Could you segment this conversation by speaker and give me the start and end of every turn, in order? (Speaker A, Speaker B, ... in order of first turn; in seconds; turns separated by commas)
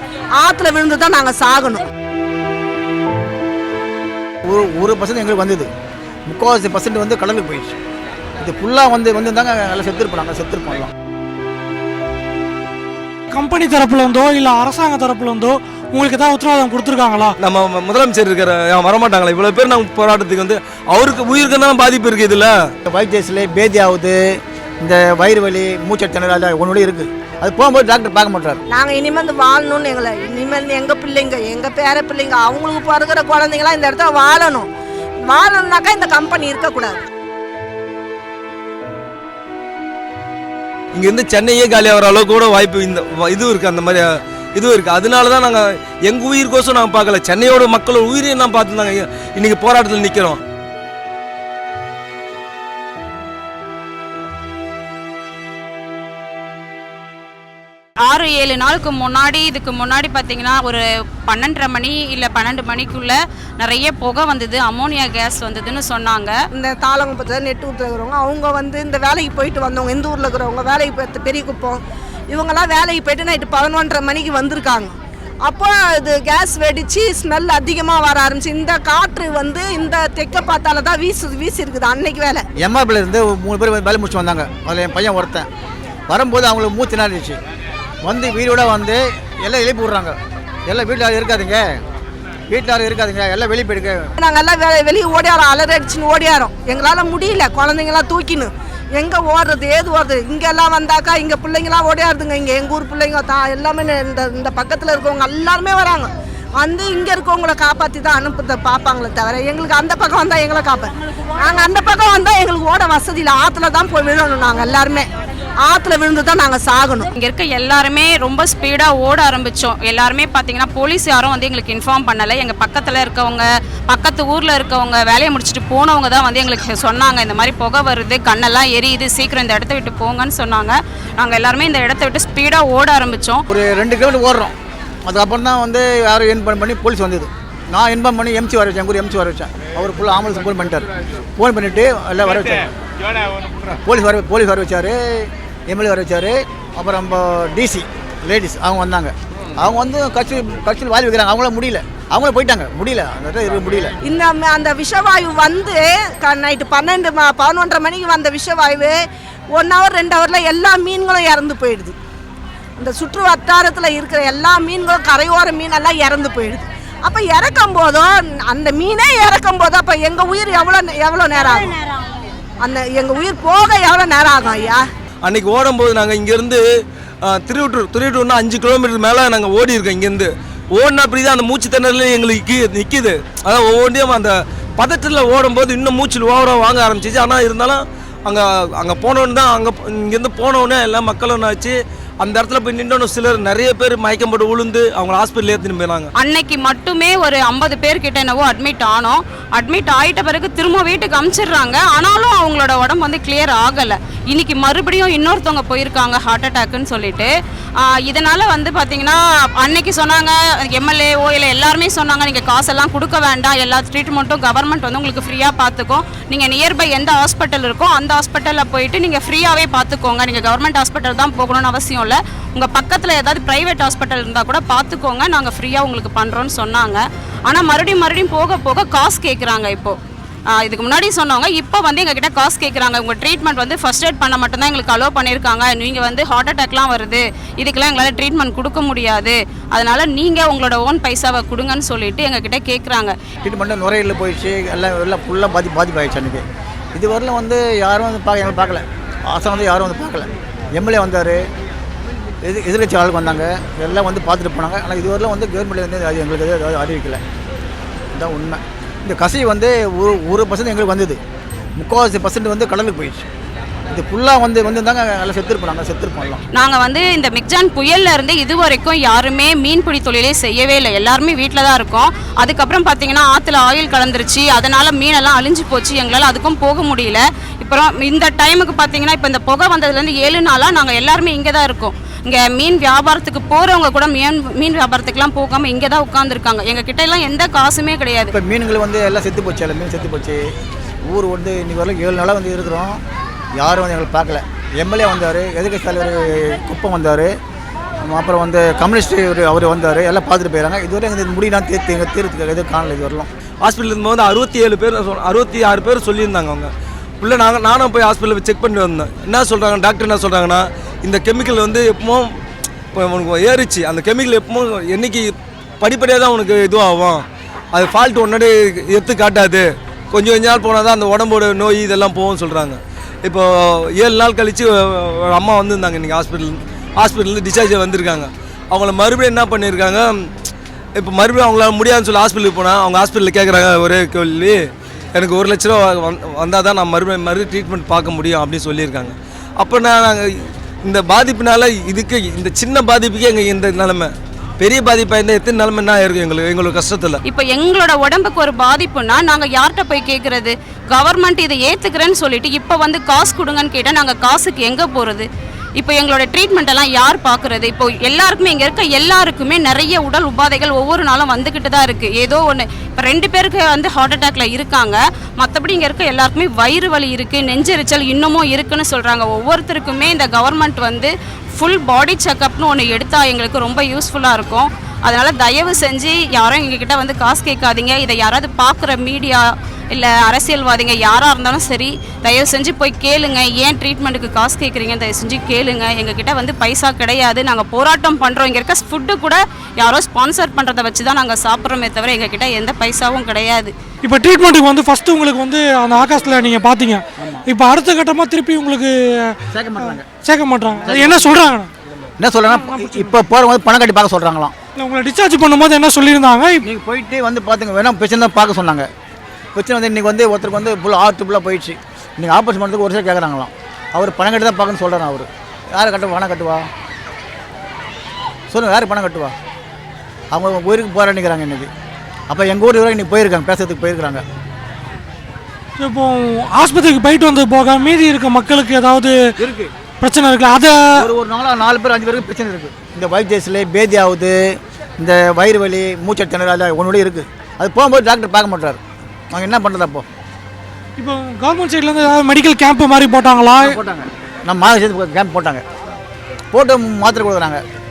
Speaker A: 0.4-1.9, Speaker B: 4.5-5.7, Speaker B: 6.3-7.8, Speaker B: 8.4-10.9, Speaker C: 13.3-17.4, Speaker D: 17.4-22.6, Speaker B: 22.9-24.2, Speaker B: 24.8-28.6, Speaker A: 28.7-34.7, Speaker A: 35.3-37.0, Speaker D: 40.9-50.4, Speaker E: 58.0-66.4, Speaker A: 66.5-82.5, Speaker B: 82.6-85.5, Speaker B: 86.1-87.4, Speaker B: 88.0-91.6, Speaker B: 92.5-94.1, Speaker A: 94.2-115.1, Speaker A: 115.6-117.1, Speaker E: 117.2-133.4, Speaker B: 133.5-134.5, Speaker B: 135.1-140.9, Speaker B: 141.4-142.7, Speaker B: 143.8-153.9, Speaker A: 154.0-159.0, Speaker A: 159.5-161.9, Speaker A: 162.8-171.8, Speaker A: 172.6-174.8, Speaker D: 175.2-176.6, Speaker D: 177.2-196.1, Speaker E: 196.2-230.0, Speaker E: 230.6-243.2, Speaker B: 243.4-246.4, Speaker B: 246.9-251.4, Speaker B: 252.4-257.2, Speaker B: 258.1-261.2, Speaker B: 261.8-263.3, Speaker B: 263.9-266.4, Speaker E: 266.5-288.3, Speaker B: 288.3-290.4, Speaker B: 291.1-293.0, Speaker B: 293.6-297.3, Speaker B: 298.0-303.3, Speaker D: 303.6-312.3, Speaker D: 312.9-330.2, Speaker D: 331.0-334.6, Speaker D: 335.1-347.2, Speaker E: 347.2-355.3, Speaker E: 355.8-393.7, Speaker C: 394.0-401.7, Speaker B: 397.2-397.5, Speaker B: 399.5-400.1, Speaker B: 400.8-401.4, Speaker B: 402.2-404.5, Speaker C: 402.5-403.2, Speaker C: 404.8-406.6, Speaker B: 406.6-408.9, Speaker B: 409.6-416.7, Speaker B: 418.5-419.3, Speaker B: 420.3-421.7, Speaker B: 422.3-424.2, Speaker C: 425.8-429.1, Speaker B: 429.4-429.7, Speaker C: 430.0-430.8, Speaker B: 431.0-434.4, Speaker B: 435.0-438.8, Speaker B: 439.3-440.1, Speaker C: 441.0-443.8, Speaker B: 443.6-445.6, Speaker B: 446.5-447.6